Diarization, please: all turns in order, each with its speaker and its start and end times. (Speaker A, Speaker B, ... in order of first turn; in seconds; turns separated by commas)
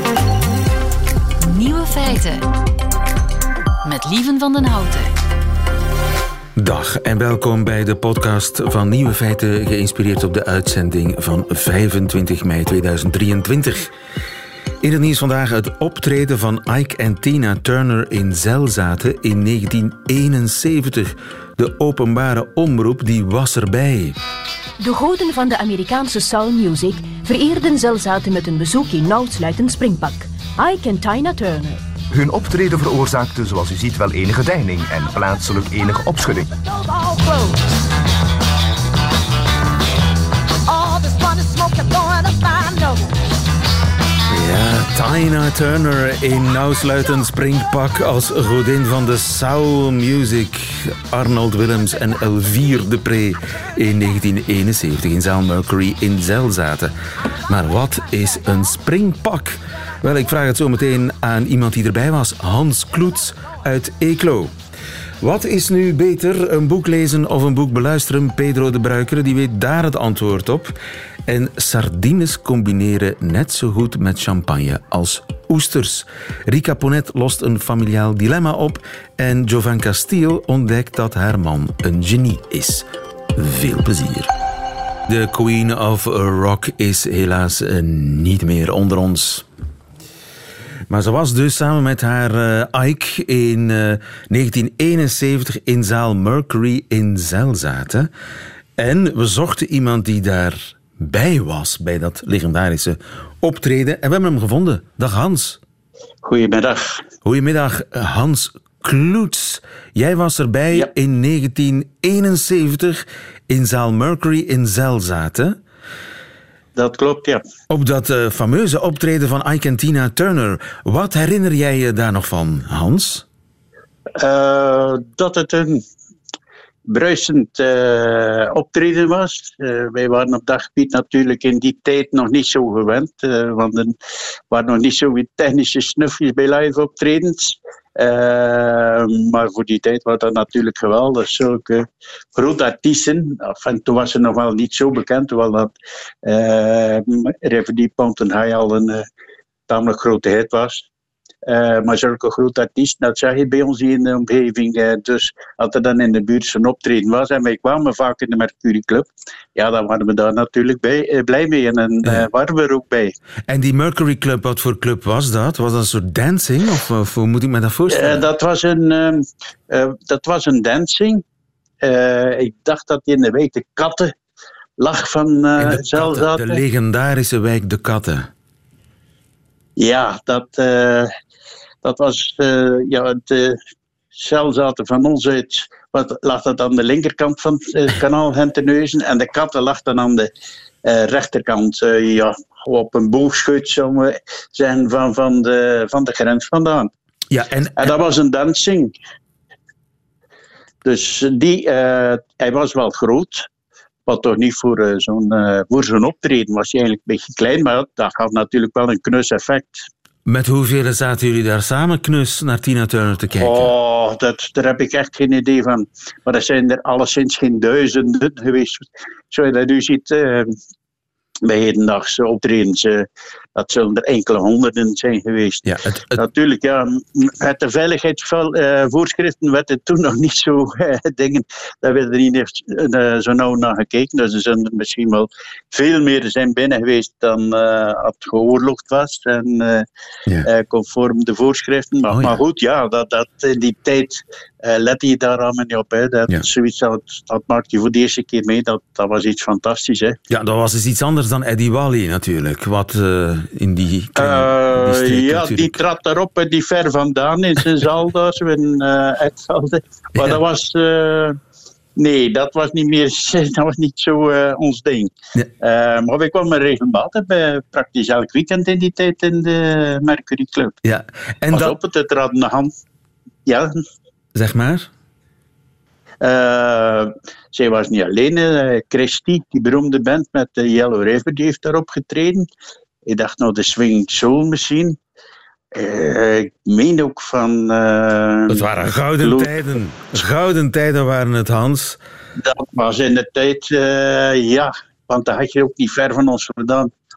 Speaker A: 1.4-2.5, Speaker A: 3.8-5.1, Speaker B: 6.5-13.9, Speaker B: 14.8-24.2, Speaker C: 24.8-31.8, Speaker D: 32.1-36.5, Speaker A: 36.7-37.6, Speaker A: 40.7-43.0, Speaker B: 44.3-56.9, Speaker B: 57.5-64.5, Speaker B: 65.2-84.3, Speaker B: 85.1-89.5, Speaker B: 90.9-98.1, Speaker B: 98.8-105.6, Speaker E: 106.2-107.0, Speaker B: 107.2-115.6, Speaker E: 116.8-117.4, Speaker B: 117.7-123.2, Speaker E: 124.2-125.8, Speaker E: 126.9-133.9, Speaker E: 134.5-145.7, Speaker E: 146.2-149.0, Speaker E: 149.7-150.8, Speaker E: 151.4-163.1, Speaker B: 162.0-162.3, Speaker B: 163.5-168.3, Speaker E: 167.9-171.2, Speaker E: 171.8-174.1, Speaker E: 174.8-176.6, Speaker B: 175.6-178.3, Speaker E: 179.8-181.1, Speaker E: 181.8-183.6, Speaker E: 184.2-190.3, Speaker E: 190.8-196.9, Speaker B: 197.3-197.9, Speaker E: 197.8-198.9, Speaker E: 200.8-203.5, Speaker E: 204.1-209.8, Speaker B: 210.2-213.7, Speaker E: 213.4-220.5, Speaker E: 221.4-225.6, Speaker B: 225.6-226.2, Speaker E: 226.2-239.8, Speaker E: 240.4-250.2, Speaker B: 242.1-242.4, Speaker B: 250.3-255.8, Speaker E: 254.2-261.4, Speaker E: 262.0-265.1, Speaker E: 265.6-270.7, Speaker B: 270.8-271.8, Speaker E: 271.5-272.7, Speaker E: 273.4-273.7, Speaker B: 274.3-274.9, Speaker E: 276.2-282.4, Speaker E: 283.1-285.0, Speaker E: 285.7-288.7, Speaker B: 288.5-292.0, Speaker E: 289.2-289.5, Speaker E: 292.4-296.9